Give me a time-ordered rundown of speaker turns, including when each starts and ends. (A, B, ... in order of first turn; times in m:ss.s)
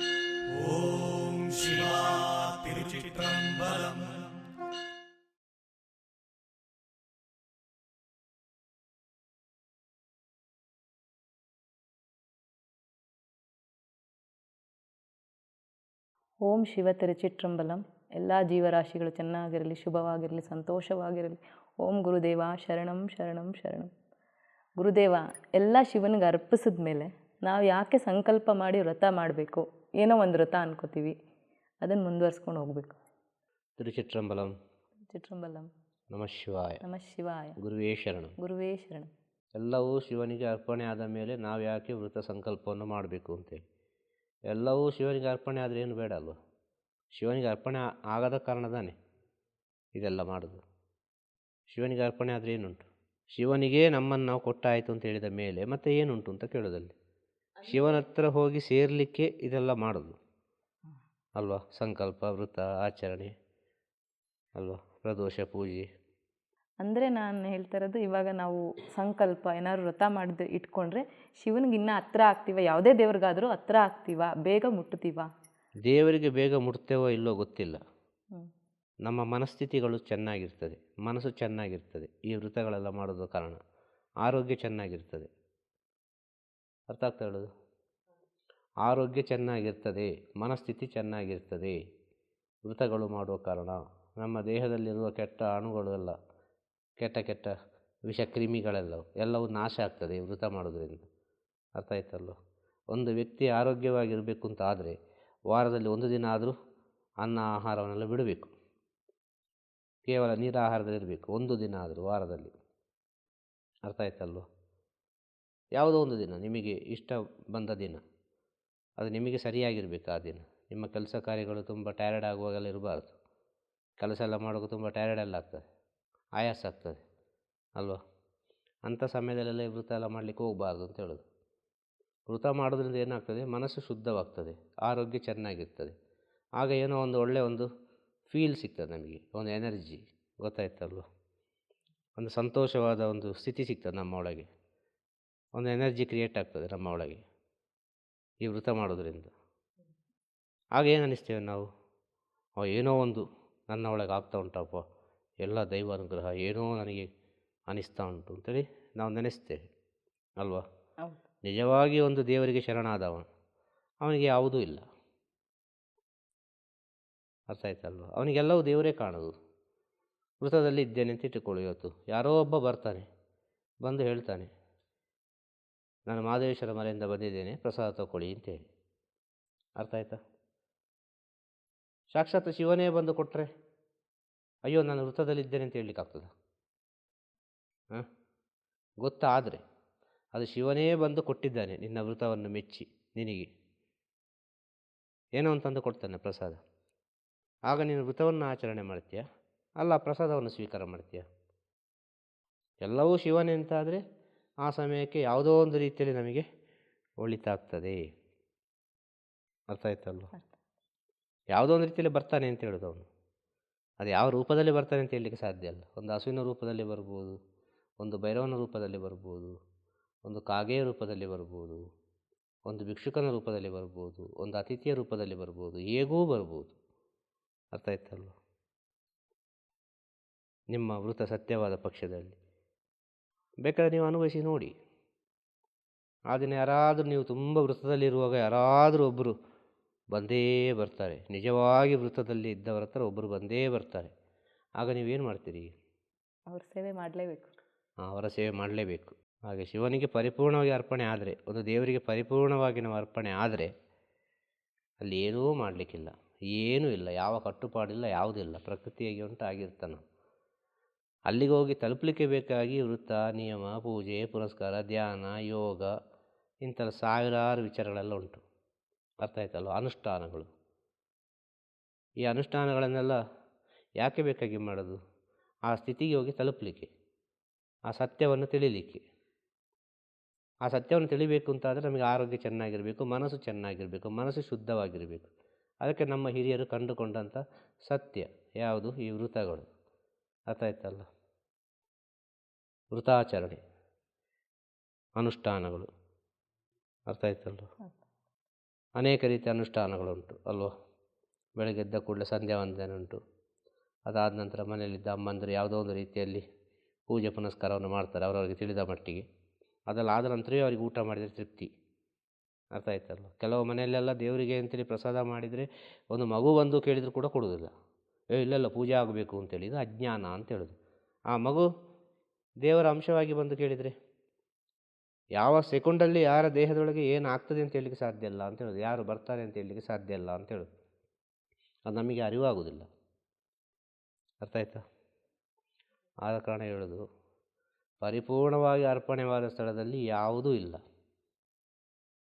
0:00.5-0:04.4 A
0:16.4-0:23.9 B
0:24.8-0:31.1 B
0:31.8-0:33.0 B
0:33.8-0:34.5 C
0:35.1-0:35.7 B
0:36.1-0:36.8 C
0:36.8-0:37.6 B
0:37.6-0:38.3 C
0:38.4-0:39.1 B
0:39.6-0:43.6 C
0:44.5-0:46.4 C
0:47.1-0:48.9 C
0:50.0-0:50.6 C
0:51.7-0:56.9 C
0:57.6-1:00.1 C
1:01.4-1:03.3 C
1:04.6-1:05.8 C
1:06.8-1:15.3 B
1:15.9-1:17.8 C
1:19.0-1:23.6 C
1:24.2-1:25.3 C
1:26.9-1:27.5 C
1:28.8-1:31.8 C
1:32.6-1:36.1 C
1:37.0-1:37.5 C
1:38.1-1:41.0 C
1:41.8-1:42.4 C
1:42.9-1:44.9 C
1:45.5-1:46.5 C
1:47.2-1:48.5 C
1:50.0-1:52.5 C
1:53.8-1:54.4 C
1:55.7-1:58.0 C
1:59.0-2:03.1 C
2:04.0-2:05.6 C
2:06.4-2:07.0 C
2:08.9-2:11.2 C
2:12.3-2:15.9 C
2:16.6-2:17.7 C
2:18.3-2:21.0 C
2:22.2-2:24.5 C
2:25.6-2:27.2 C
2:28.4-2:29.3 C
2:30.8-2:31.6 C
2:32.6-2:34.8 C
2:35.4-2:37.1 C
2:37.7-2:39.6 C
2:41.4-2:43.2 C
2:44.0-2:44.8 C
2:47.5-2:49.3 C
2:50.4-2:53.0 C
2:53.8-2:54.5 C
2:56.1-2:58.6 C
2:59.8-3:00.2 C
3:02.1-3:03.5 C
3:04.7-3:06.3 C
3:09.0-3:09.6 C
3:10.3-3:13.5 C
3:15.4-3:16.6 C
3:17.7-3:19.2 C
3:19.8-3:21.2 C
3:22.8-3:24.0 C
3:24.6-3:26.4 C
3:27.2-3:28.0 C
3:29.7-3:30.3 C
3:31.5-3:33.1 C
3:34.0-3:37.3 C
3:38.0-3:39.5 C
3:40.2-3:41.8 C
3:42.6-3:46.8 C
3:47.7-3:48.3 C
3:50.7-3:52.4 C
3:53.6-3:54.7 C
3:56.3-3:59.3 C
4:00.1-4:04.1 C
4:04.8-4:05.7 C
4:06.5-4:07.6 B
4:08.0-4:13.7 C
4:15.0-4:20.0 C
4:21.3-4:25.9 C
4:26.6-4:28.4 C
4:29.2-4:30.4 C
4:32.2-4:33.2 C
4:34.0-4:35.0 C
4:35.7-4:36.9 C
4:37.9-4:39.0 C
4:40.6-4:45.3 C
4:45.8-4:49.7 C
4:50.5-4:51.0 C
4:52.9-4:53.6 C
4:55.2-4:55.9 C
4:57.1-4:57.7 C
4:59.0-5:00.7 C
5:01.6-5:03.2 C
5:04.1-5:06.4 C
5:07.1-5:09.2 C
5:09.9-5:11.7 C
5:12.7-5:17.7 C
5:18.3-5:20.7 C
5:21.3-5:21.7 C
5:22.6-5:23.9 C
5:25.4-5:30.7 C
5:31.9-5:32.8 C
5:34.4-5:34.8 C
5:36.2-5:37.0 C
5:38.0-5:40.8 C